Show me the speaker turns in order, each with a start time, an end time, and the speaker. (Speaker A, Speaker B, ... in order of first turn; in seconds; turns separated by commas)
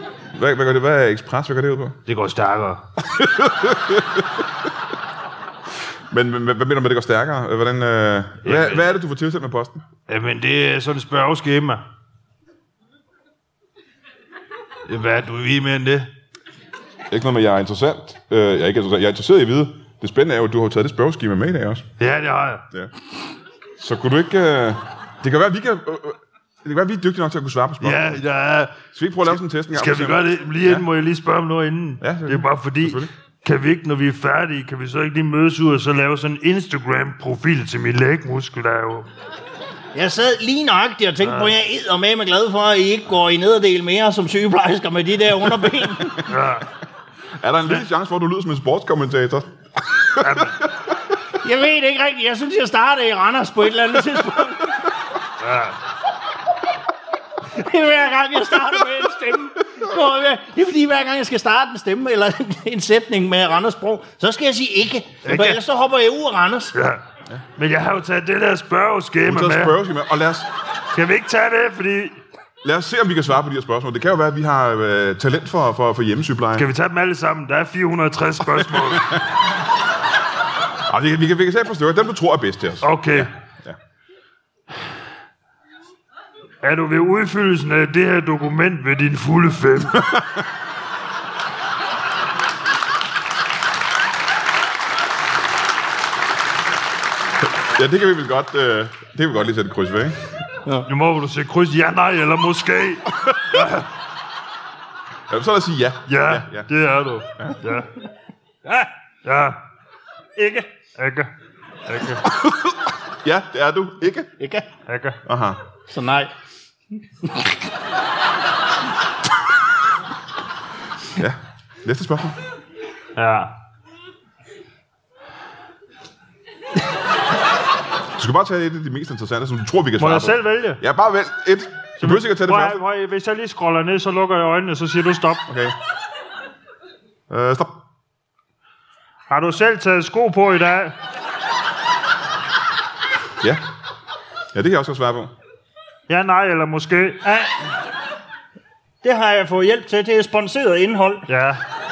Speaker A: 0.3-2.0, Speaker B: 2.1-2.8, Speaker A: 3.1-4.5, Speaker A: 6.1-9.8, Speaker B: 8.4-8.8, Speaker B: 10.1-11.8, Speaker B: 14.9-16.1, Speaker A: 17.1-21.9, Speaker B: 22.0-22.6, Speaker A: 23.8-28.2, Speaker B: 27.8-28.8, Speaker A: 28.9-30.9, Speaker B: 29.7-39.1, Speaker A: 32.0-33.1, Speaker C: 39.9-46.2, Speaker B: 41.2-41.5, Speaker A: 45.8-46.3, Speaker B: 46.2-46.7, Speaker A: 47.4-50.5, Speaker B: 50.2-50.6, Speaker C: 51.4-54.8, Speaker B: 55.4-55.8, Speaker C: 57.5-66.8, Speaker B: 65.2-65.6, Speaker B: 66.7-67.0, Speaker B: 67.6-69.8, Speaker A: 69.2-70.5, Speaker B: 70.9-72.2, Speaker A: 72.6-76.7, Speaker B: 76.6-79.2, Speaker A: 80.8-83.8, Speaker B: 82.8-83.3, Speaker B: 86.6-90.1, Speaker A: 90.0-90.4, Speaker A: 97.6-100.2, Speaker B: 100.9-103.9, Speaker A: 105.3-106.7, Speaker B: 106.1-107.9, Speaker B: 109.2-109.6, Speaker C: 110.4-110.7, Speaker B: 111.0-111.3, Speaker B: 111.9-112.2, Speaker A: 113.1-114.3, Speaker C: 114.4-114.7, Speaker B: 114.9-115.2, Speaker A: 115.2-115.6, Speaker C: 115.9-116.3, Speaker C: 117.2-117.5, Speaker A: 121.1-122.4, Speaker B: 123.2-123.5, Speaker A: 128.2-132.8, Speaker B: 130.0-130.8, Speaker B: 132.0-135.4, Speaker A: 135.5-135.8, Speaker A: 137.3-137.8, Speaker B: 139.3-140.9, Speaker A: 144.5-145.3, Speaker B: 146.1-147.3, Speaker C: 147.2-147.5, Speaker C: 149.0-151.3, Speaker B: 151.3-151.6